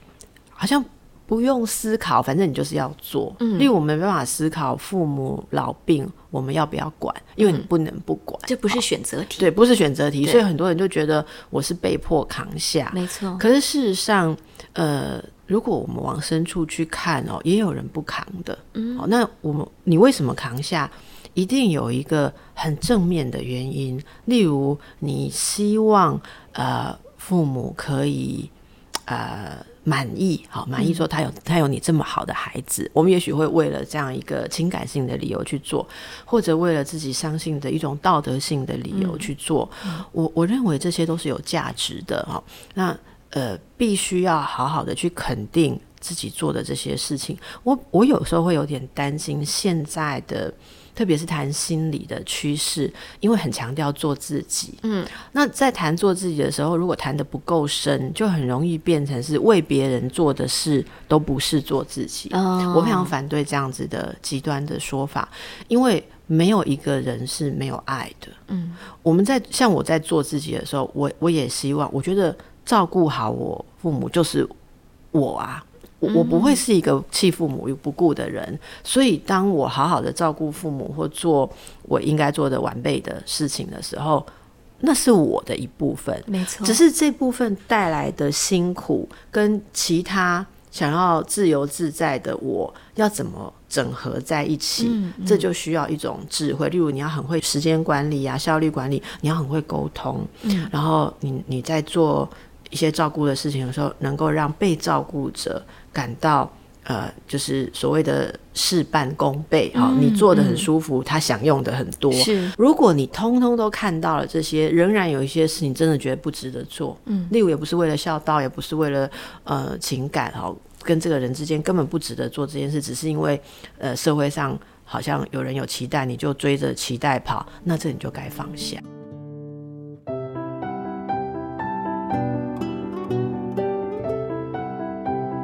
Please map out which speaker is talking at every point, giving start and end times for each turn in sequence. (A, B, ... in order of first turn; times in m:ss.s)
0:00.6-0:08.8 A
0:03.4-0:03.7 B
0:07.4-0:07.7 B
0:08.5-0:09.5 B
0:09.4-0:28.5 A
0:12.9-0:13.4 B
0:18.7-0:19.1 B
0:29.1-1:08.4 A
0:30.8-0:31.0 B
0:38.9-0:39.3 B
0:54.8-0:55.1 B
1:02.3-1:03.1 B
1:08.5-1:08.8 B
1:09.0-1:14.5 A
1:15.1-1:24.3 A
1:16.0-1:16.6 B
1:24.8-2:08.8 A
1:26.3-1:26.8 B
1:34.8-1:35.4 B
1:40.4-1:40.7 B
1:49.7-1:50.7 B
1:52.1-1:52.6 B
1:57.0-1:57.3 B